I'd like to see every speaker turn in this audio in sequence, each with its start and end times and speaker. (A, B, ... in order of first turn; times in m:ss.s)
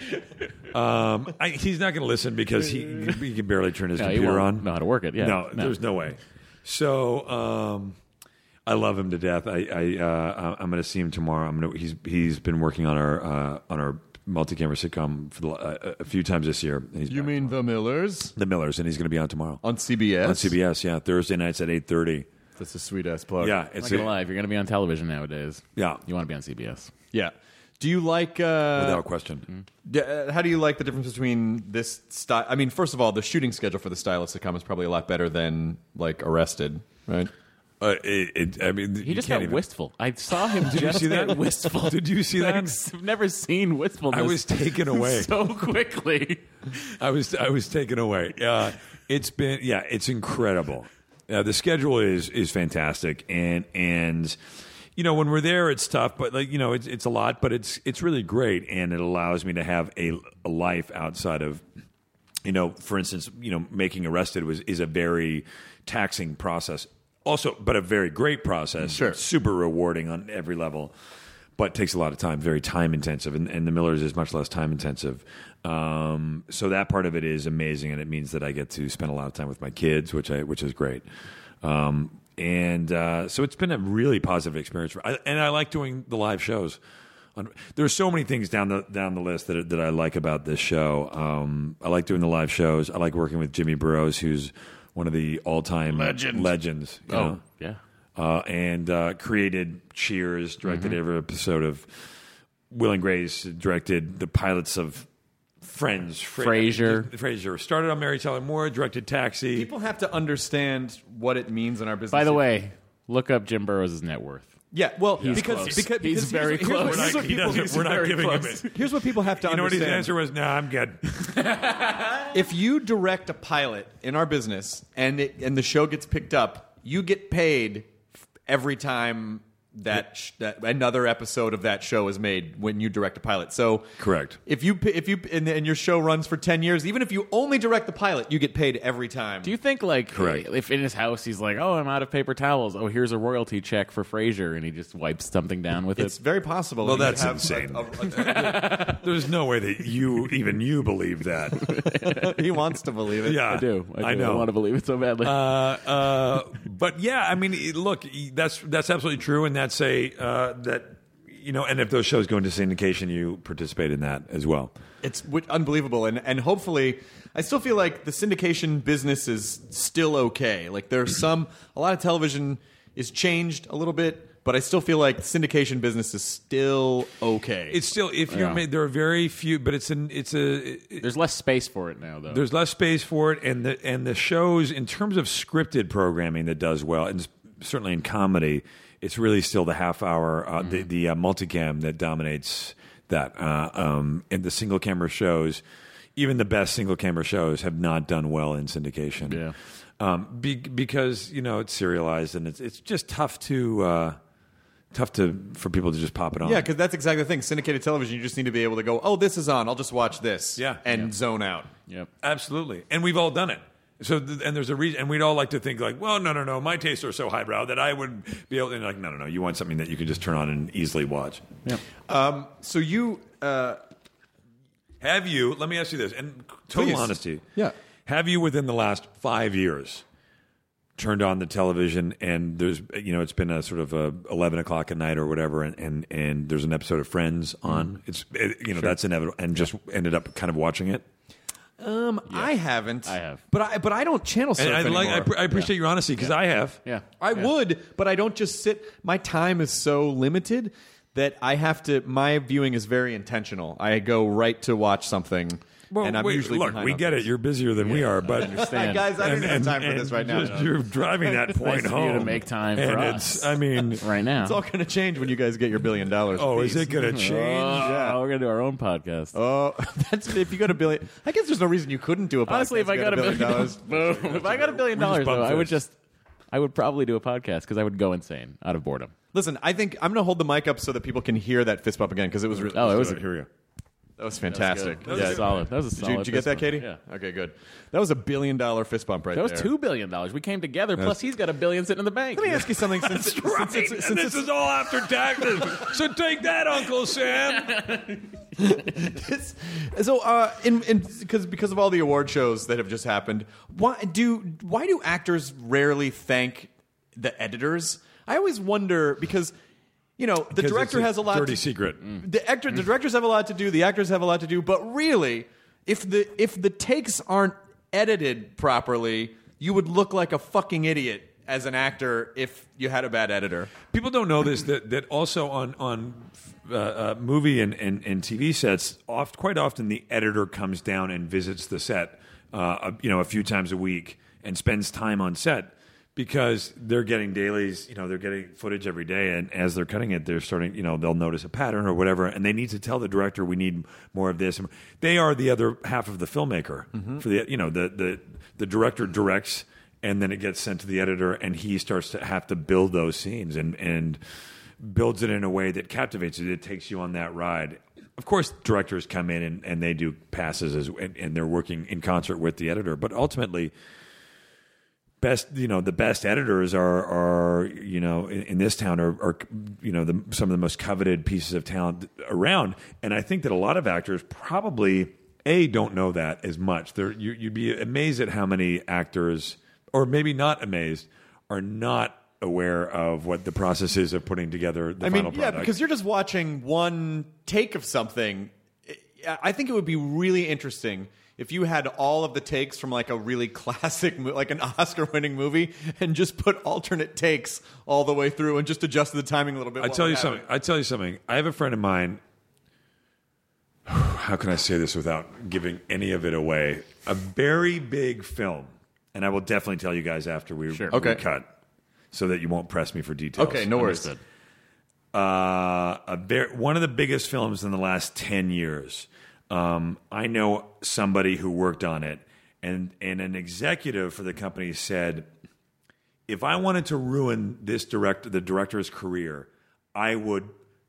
0:00.7-0:08.0 A
0:04.0-0:05.8 B
0:08.7-0:17.5 A
0:17.1-0:18.3 C
0:18.3-0:19.6 A
0:19.6-0:20.5 C
0:20.2-0:22.3 A
0:22.6-0:23.6 C
0:23.4-0:24.1 A
0:23.8-0:26.9 B
0:25.8-0:26.0 A
0:27.1-0:29.0 C
0:28.8-0:29.5 A
0:29.9-0:37.3 C
0:37.8-0:39.6 A
0:39.0-0:46.5 B
0:40.5-0:42.8 A
0:44.1-0:45.3 A
0:47.0-0:54.4 A
0:55.0-1:01.6 A
1:02.4-1:10.9 A
1:08.9-1:09.2 C
1:11.6-1:21.0 A
1:21.6-1:26.8 A
1:27.4-1:37.4 A
1:35.9-1:36.5 B
1:37.1-1:37.8 B
1:38.2-1:42.1 A
1:40.6-1:41.0 B
1:42.7-1:45.1 A
1:45.6-1:49.7 A
1:46.4-1:47.1 B
1:49.5-1:52.6 C
1:52.1-1:54.6 B
1:54.7-1:58.0 C
1:55.2-1:58.8 B
1:55.2-1:55.9 A
1:56.8-1:58.7 A
1:58.6-2:00.1 C
1:59.3-2:01.0 A
2:01.2-2:02.3 B
2:02.3-2:07.9 C
2:08.5-2:13.9 C
2:14.0-2:14.4 A
2:14.5-2:19.5 C
2:19.4-2:26.2 B
2:20.1-2:20.4 A
2:26.0-2:28.6 C
2:26.8-2:31.7 A
2:28.1-2:29.0 B
2:31.6-2:32.4 B
2:32.2-2:33.4 C
2:33.2-2:34.5 A
2:33.3-2:35.8 B
2:35.2-2:44.7 A
2:45.0-2:57.8 C
2:57.7-3:01.1 A
2:58.3-2:58.6 B
3:01.0-3:02.4 B
3:02.3-3:15.6 A
3:16.2-3:19.4 A
3:19.2-3:19.6 B
3:20.0-3:24.2 A
3:24.9-3:26.7 A
3:26.4-3:31.7 C
3:32.2-3:41.5 A
3:42.1-3:43.8 C
3:45.0-3:47.5 A
3:46.7-3:47.8 C
3:48.1-3:50.0 A
3:51.0-4:01.0 A
4:01.8-4:05.4 C
4:02.3-4:02.5 B
4:03.0-4:03.4 B
4:04.6-4:06.8 A
4:05.5-4:06.3 B
4:06.8-4:07.5 B
4:07.2-4:17.3 C
4:15.9-4:24.1 A
4:17.8-4:19.6 B
4:18.4-4:20.7 C
4:21.5-4:24.6 B
4:24.4-4:26.9 C
4:26.3-4:28.0 A
4:27.0-4:29.4 B
4:27.8-4:28.2 C
4:29.3-4:34.8 C
4:32.5-4:36.0 B
4:34.2-4:35.8 A
4:36.5-4:39.1 B
4:39.3-4:43.5 C
4:42.7-4:43.2 B
4:44.2-4:49.7 C
4:44.5-4:47.0 B
4:45.0-4:45.7 A
4:49.3-4:52.6 B
4:52.3-4:54.5 C
4:53.0-4:57.9 A
4:57.7-4:58.2 B
4:58.6-5:09.5 C
5:10.2-5:23.7 C
5:10.6-5:12.0 A
5:23.9-5:54.2 A
5:47.0-5:47.2 C
5:54.8-6:03.7 A
6:05.2-6:25.8 A
6:25.0-6:40.4 C
6:39.8-6:42.2 A
6:43.9-6:51.5 A
6:50.7-6:51.0 B
6:50.9-6:51.2 C
6:52.1-6:53.8 A
6:53.4-6:54.1 C
6:53.8-6:54.2 B
6:55.1-7:05.3 A
7:06.3-7:10.6 A